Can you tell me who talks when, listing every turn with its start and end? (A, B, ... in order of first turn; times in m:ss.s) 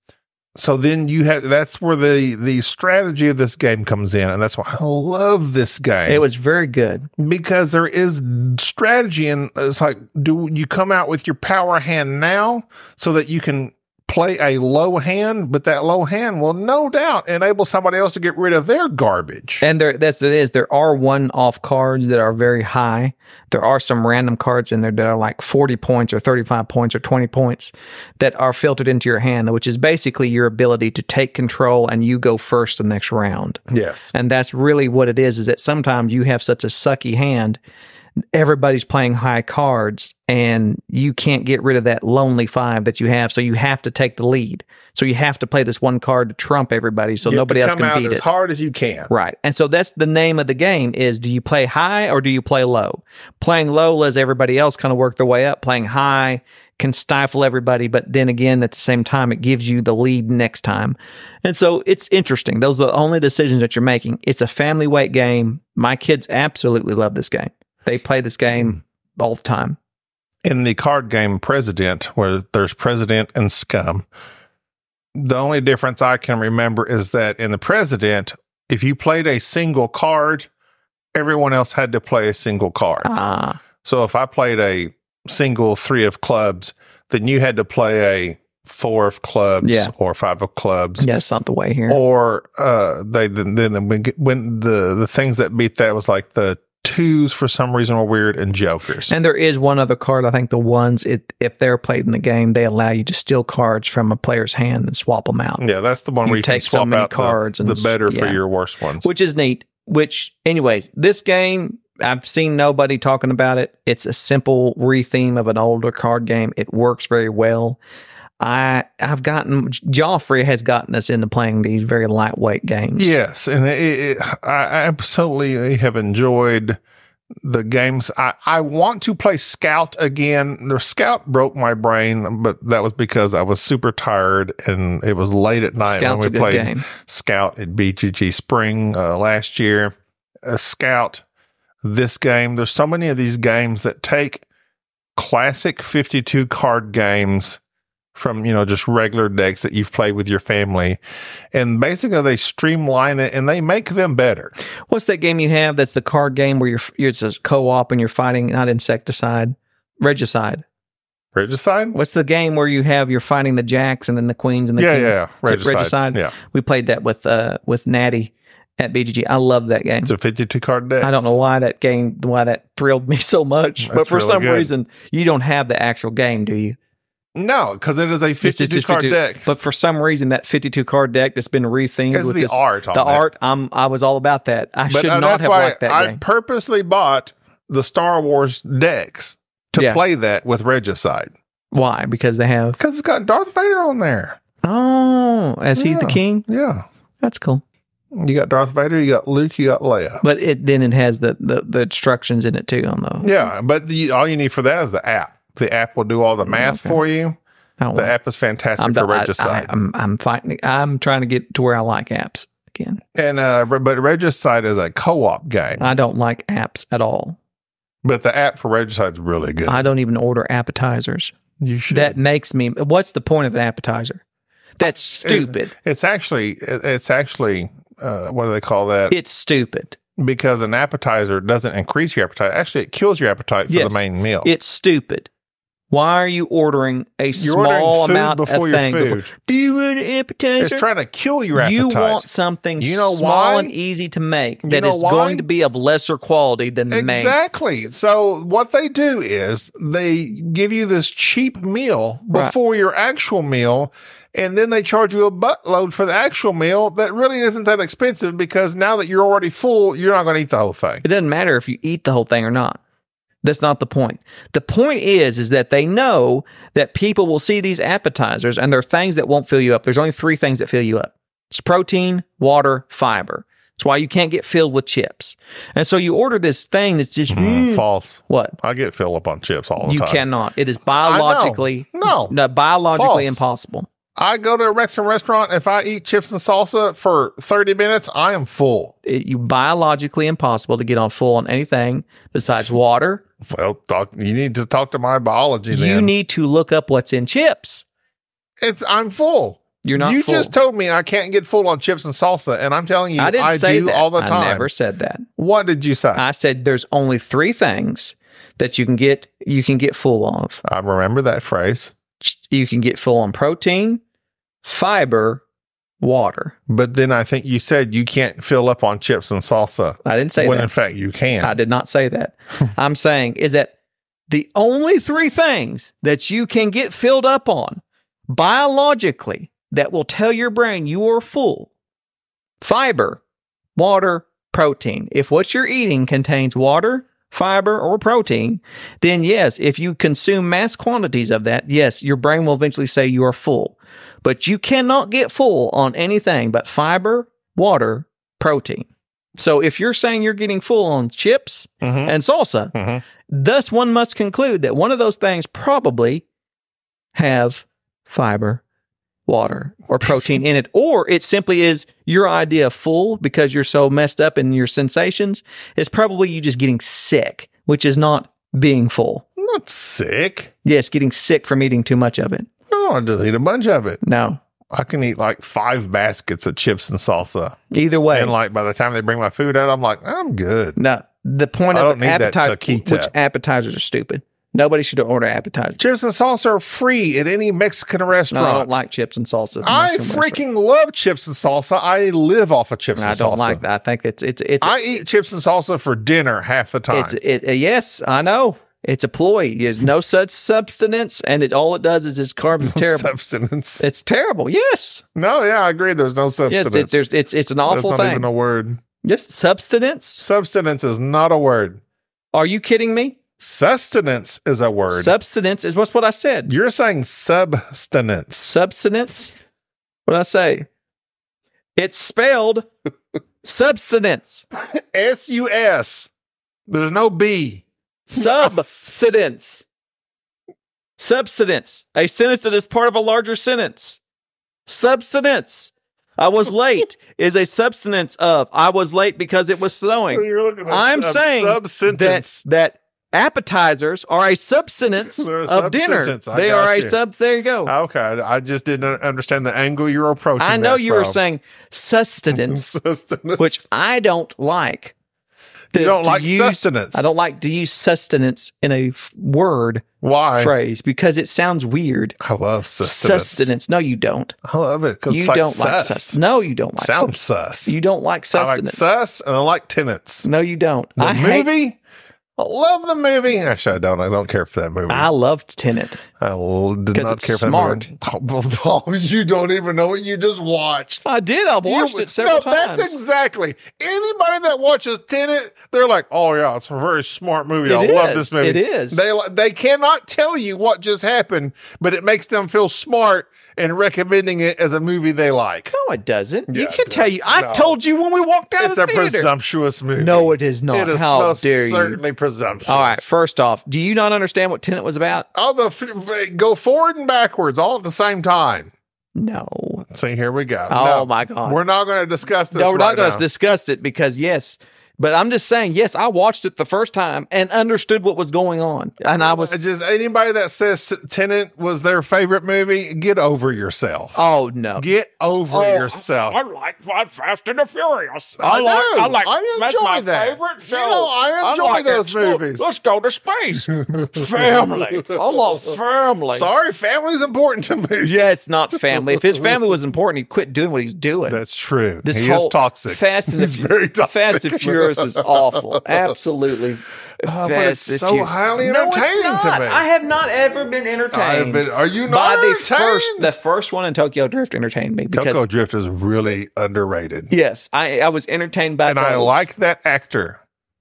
0:00.6-0:06.2 A
0:06.1-0:07.1 B
0:07.2-0:19.6 A
0:19.6-0:33.6 B
0:33.7-0:34.1 A
0:34.1-0:37.6 B
0:38.3-0:48.2 B
0:47.2-0:49.1 A
0:49.1-1:09.8 B
1:10.4-1:14.1 A
1:15.2-1:20.5 A
1:21.2-1:23.1 A
1:23.0-1:23.6 B
1:23.8-1:31.1 A
1:29.6-1:29.9 B
1:31.0-1:32.0 B
1:31.9-1:39.1 A
1:39.1-1:45.6 B
1:45.6-1:49.1 A
1:46.2-1:48.4 B
1:49.0-1:57.8 B
1:58.4-2:03.1 B
2:03.0-2:06.8 A
2:07.4-2:19.9 A
2:15.8-2:16.8 B
2:20.4-2:21.2 A
2:21.8-2:24.4 A
2:25.2-2:27.6 A
2:28.2-2:31.0 A
2:31.5-2:34.5 A
2:34.9-2:40.6 B
2:41.3-2:42.0 A
2:41.9-2:50.1 B
2:44.8-2:46.3 A
2:50.0-2:51.1 A
2:51.0-2:56.8 B
2:53.8-2:54.7 A
2:57.4-2:59.5 A
2:58.4-3:06.2 B
3:02.1-3:03.2 A
3:04.9-3:11.3 A
3:11.7-3:12.8 B
3:12.8-3:14.4 A
3:14.6-3:16.4 B
3:15.8-3:16.8 A
3:17.2-3:17.6 B
3:18.1-3:20.2 A
3:20.2-3:23.5 B
3:23.2-3:27.4 A
3:26.4-3:27.0 B
3:27.8-3:28.1 B
3:27.9-3:29.7 A
3:28.8-3:33.0 B
3:33.2-3:35.9 A
3:35.8-3:37.4 B
3:38.0-3:39.9 A
3:39.7-3:41.3 B
3:41.6-3:42.2 A
3:41.9-3:44.2 B
3:44.8-3:45.7 B
3:45.2-3:49.2 A
3:49.1-3:50.0 B
3:50.2-3:54.5 A
3:53.7-3:55.3 B
3:55.9-4:00.8 B
3:57.4-3:59.3 A
4:00.6-4:02.3 A
4:01.6-4:07.4 B
4:02.8-4:03.7 A
4:04.6-4:05.5 A
4:06.9-4:21.0 A
4:21.0-4:22.8 B
4:23.4-4:38.6 B
4:37.3-4:40.2 A
4:39.8-4:43.9 B
4:41.0-4:42.3 A
4:42.9-4:43.4 A
4:44.2-4:48.9 A
4:49.1-4:53.2 B
4:53.4-4:56.1 A
4:55.7-4:57.8 B
4:58.6-5:04.7 A
4:59.8-5:00.5 B
5:03.2-5:05.3 B
5:05.4-5:06.2 A
5:06.2-5:10.6 B
5:10.6-5:11.9 A
5:12.2-5:14.0 B
5:14.6-5:15.4 B
5:16.0-5:16.6 B
5:16.7-5:21.6 A
5:20.0-5:20.7 B
5:21.4-5:23.7 B
5:24.3-5:31.7 B
5:32.6-5:33.2 B
5:33.8-5:52.7 B
5:51.8-5:52.2 A
5:52.7-5:53.0 A
5:53.3-5:56.2 B
5:57.2-5:58.6 B
5:59.3-6:09.2 B
6:09.4-6:10.5 A
6:10.6-6:12.5 B
6:12.7-6:14.0 A
6:14.0-6:14.4 B
6:14.7-6:17.6 A
6:17.7-6:18.3 B
6:18.1-6:20.8 A
6:20.8-6:25.8 B
6:21.7-6:23.1 A
6:25.8-6:28.7 A
6:28.3-6:30.4 B
6:29.6-6:33.6 A
6:33.0-6:34.8 B
6:34.6-6:37.2 A
6:36.9-6:43.1 B
6:42.6-6:43.8 A
6:43.8-6:45.0 B
6:45.2-6:47.0 A
6:46.5-6:48.3 B
6:47.7-6:48.8 A
6:49.0-6:50.2 B
6:50.2-6:51.8 A
6:52.3-6:53.2 B
6:53.4-6:55.1 A
6:54.9-6:56.5 B
6:56.5-6:58.5 A
6:58.4-6:59.3 B
7:00.1-7:00.7 B
7:01.8-7:02.7 B
7:03.4-7:04.4 B
7:04.6-7:06.1 A
7:06.7-7:08.8 A
7:08.1-7:09.6 B
7:11.0-7:14.0 B
7:14.7-7:27.7 B
7:20.1-7:22.4 A
7:25.0-7:27.0 A
7:27.6-7:31.2 A
7:30.4-7:32.7 B
7:32.3-7:33.6 A
7:33.4-7:34.9 B
7:35.7-7:39.9 B
7:35.7-7:37.1 A
7:40.0-7:40.5 A
7:40.4-7:42.2 B
7:42.2-7:43.5 A
7:42.8-7:44.3 B
7:44.4-7:46.2 A
7:45.1-7:48.9 B
7:46.8-7:47.8 A
7:48.3-7:50.3 A
7:50.2-7:51.5 B
7:51.0-7:51.8 A
7:52.4-7:55.1 A
7:54.9-7:56.0 B
7:56.2-8:01.0 A
7:56.9-7:57.9 B
8:01.0-8:03.0 B
8:01.6-8:15.7 A
8:07.6-8:09.1 B
8:15.7-8:19.3 B
8:16.5-8:17.8 A
8:18.6-8:23.0 A
8:20.0-8:22.0 B
8:22.7-8:25.3 B
8:25.3-8:28.7 A
8:29.2-8:29.8 B
8:29.9-8:33.2 A
8:30.7-8:31.6 B
8:32.5-8:39.6 B
8:39.2-8:46.4 A
8:44.2-8:44.9 B
8:45.5-8:56.4 C
8:48.4-8:52.7 A
8:53.8-8:55.2 A
8:55.2-8:55.8 B
8:56.3-8:58.1 A
8:58.0-9:01.4 B
8:58.9-8:59.5 A
9:01.3-9:06.0 A
9:02.0-9:15.4 B
9:07.2-9:09.9 A
9:11.1-9:13.3 A
9:15.1-9:17.3 A
9:17.3-9:19.5 B
9:18.8-9:20.4 A